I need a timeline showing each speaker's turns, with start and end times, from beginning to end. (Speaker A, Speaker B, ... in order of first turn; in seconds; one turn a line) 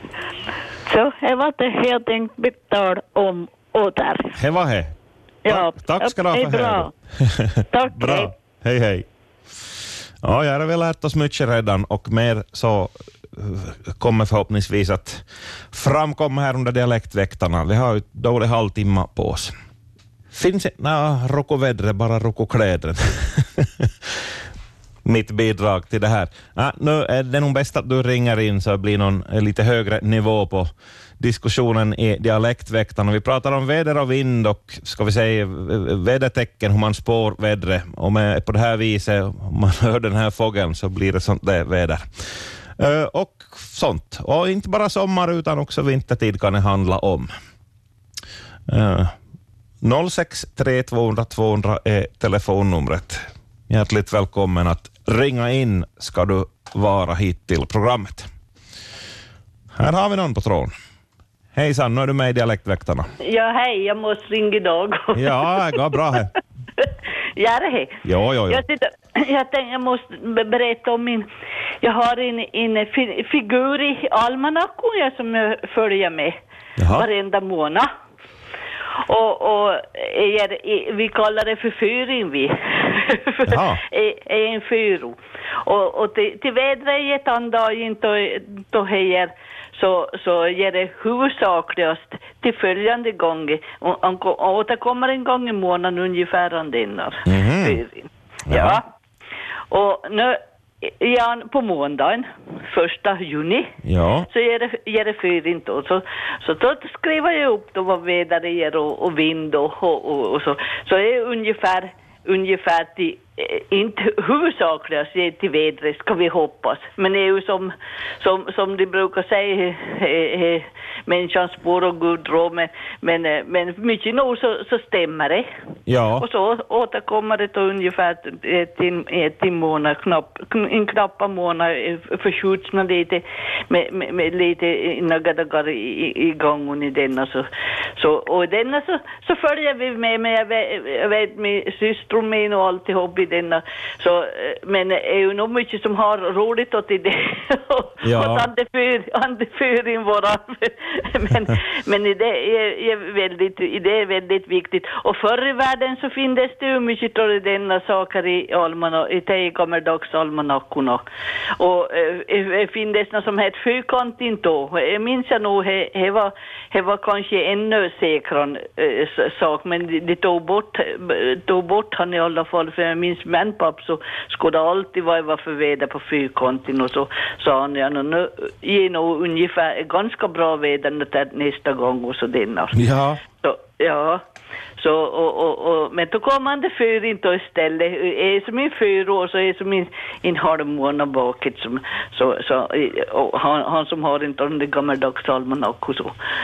Speaker A: 0.9-4.4
Speaker B: 4.4-4.9
Speaker A: 5.5-6.9
Speaker B: 5.5-9.1
Speaker A: 7.7-8.3
Speaker B: 10.2-19.5
Speaker B: 20.3-23.9
Speaker B: 25.1-30.7
Speaker B: 31.2-42.0
Speaker B: 42.8-47.3
Speaker B: 48.7-49.1
Speaker B: 49.8-58.3
Speaker B: 59.8-60.7
Speaker B: 61.5-63.1
Speaker C: 63.2-66.0
Speaker B: 65.2-66.3
Speaker C: 66.8-71.3
Speaker B: 68.0-68.6
Speaker C: 71.8-76.4
Speaker B: 76.8-77.1
Speaker C: 77.0-77.9
Speaker C: 79.0-98.8
Speaker B: 83.5-83.8
Speaker B: 97.3-97.8
Speaker B: 98.5-98.8
Speaker C: 99.7-103.7
Speaker B: 103.8-104.3
Speaker C: 104.3-125.5
Speaker B: 125.9-126.2
Speaker C: 126.2-161.0
Speaker B: 148.0-148.5
Speaker C: 161.6-182.8
Speaker B: 182.8-183.2
Speaker C: 183.4-184.2
Speaker C: 184.8-196.2